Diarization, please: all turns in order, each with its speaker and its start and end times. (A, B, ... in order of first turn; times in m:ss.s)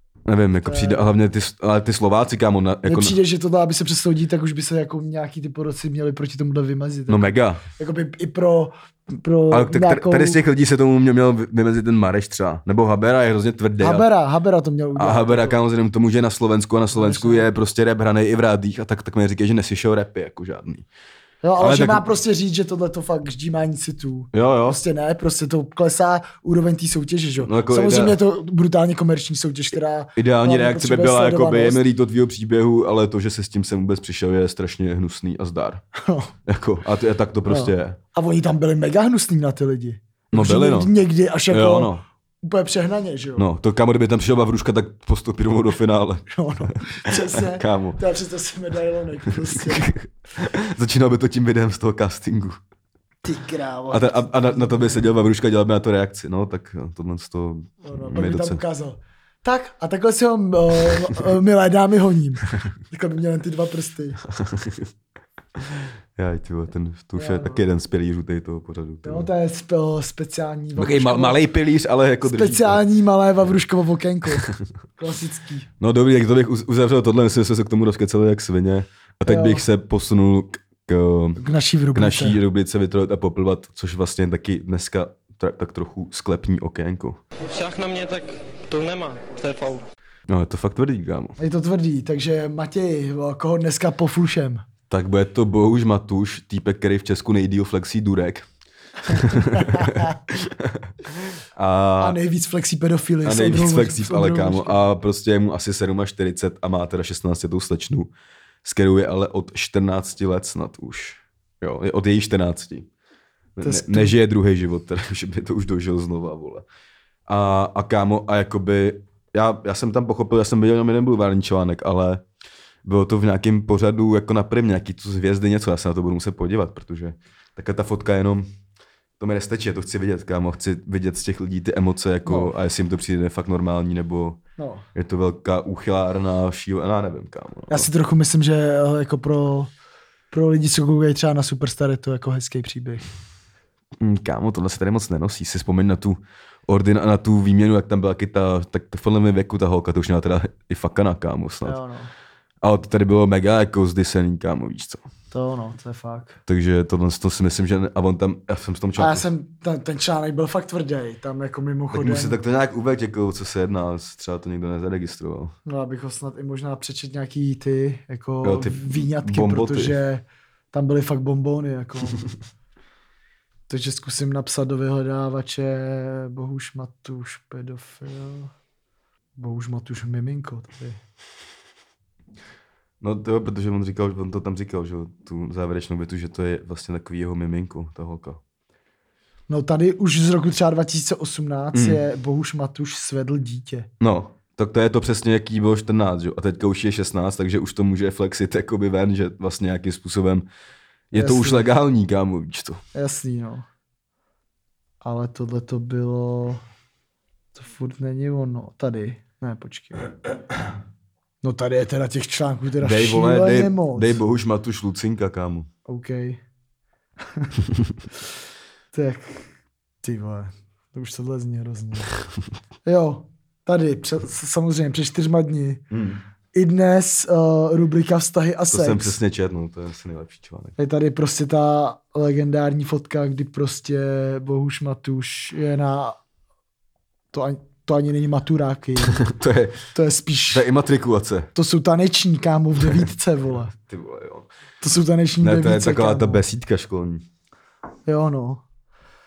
0:00.2-0:03.2 A
0:00.6-0:01.1 B
0:02.8-0:10.4 B
0:07.1-0:07.6 A
0:09.5-0:14.0 A
0:13.8-0:15.6 B
0:15.0-0:20.8 A
0:16.9-0:17.5 B
0:21.4-0:31.8 B
0:21.6-0:22.1 A
0:24.3-0:24.8 A
0:27.4-0:28.2 A
0:30.2-0:35.8 A
0:36.0-0:36.3 B
0:36.4-0:38.0 A
0:37.5-0:41.9 B
0:40.3-0:40.9 A
0:41.5-0:42.0 A
0:42.4-0:43.4 B
0:43.4-0:46.3 A
0:46.3-0:50.0 B
0:47.2-0:48.0 A
0:49.4-0:52.6 A
0:53.2-0:55.2 B
0:53.9-0:58.6 A
0:57.8-1:04.2 B
1:04.3-1:04.9 A
1:06.2-1:09.3 A
1:07.2-1:07.6 B
1:09.0-1:11.4 B
1:10.8-1:12.8 A
1:12.2-1:14.5 B
1:15.0-1:15.7 B
1:15.8-1:21.4 A
1:19.2-1:19.6 B
1:21.4-1:22.4 B
1:21.9-1:27.2 A
1:27.4-1:29.8 C
1:30.3-1:31.4 A
1:31.4-1:34.6 B
1:34.9-1:38.5 A
1:39.0-1:42.2 A
1:39.1-1:40.2 B
1:42.0-1:44.8 B
1:43.2-1:48.1 A
1:48.6-1:52.9 A
1:53.6-1:56.6 A
1:53.6-1:54.2 B
1:57.3-2:02.2 A
2:02.8-2:08.4 A
2:09.2-2:14.4 A
2:12.2-2:12.5 B
2:14.6-2:14.9 B
2:14.9-2:17.9 A
2:17.7-2:19.7 B
2:20.3-2:23.1 B
2:24.0-2:31.8 A
2:31.6-2:32.1 B
2:32.6-2:35.0 A
2:35.3-2:36.4 B
2:36.5-2:39.3 A
2:39.0-2:42.4 B
2:41.9-2:45.5 A
2:45.6-2:52.2 B
2:48.4-2:49.9 A
2:53.7-2:58.5 B
2:59.4-3:01.0 B
3:03.0-3:08.4 A
3:09.5-3:13.9 B
3:11.7-3:12.0 A
3:14.0-3:20.5 A
3:21.1-3:22.8 A
3:21.1-3:21.7 B
3:22.9-3:23.6 B
3:25.0-3:26.6 B
3:27.5-3:30.1 B
3:31.4-3:34.2 B
3:32.8-3:35.7 A
3:35.8-3:36.4 B
3:38.9-3:42.1 B
3:42.8-3:45.8 B
3:45.9-3:46.2 A
3:46.5-3:49.2 B
3:48.7-3:50.8 A
3:50.8-3:56.2 B
3:57.3-3:59.2 B
3:59.0-3:59.8 A
3:59.9-4:00.7 B
4:00.5-4:01.5 A
4:01.5-4:03.7 B
4:03.7-4:04.5 A
4:04.8-4:06.4 B
4:05.4-4:07.2 A
4:08.0-4:08.6 B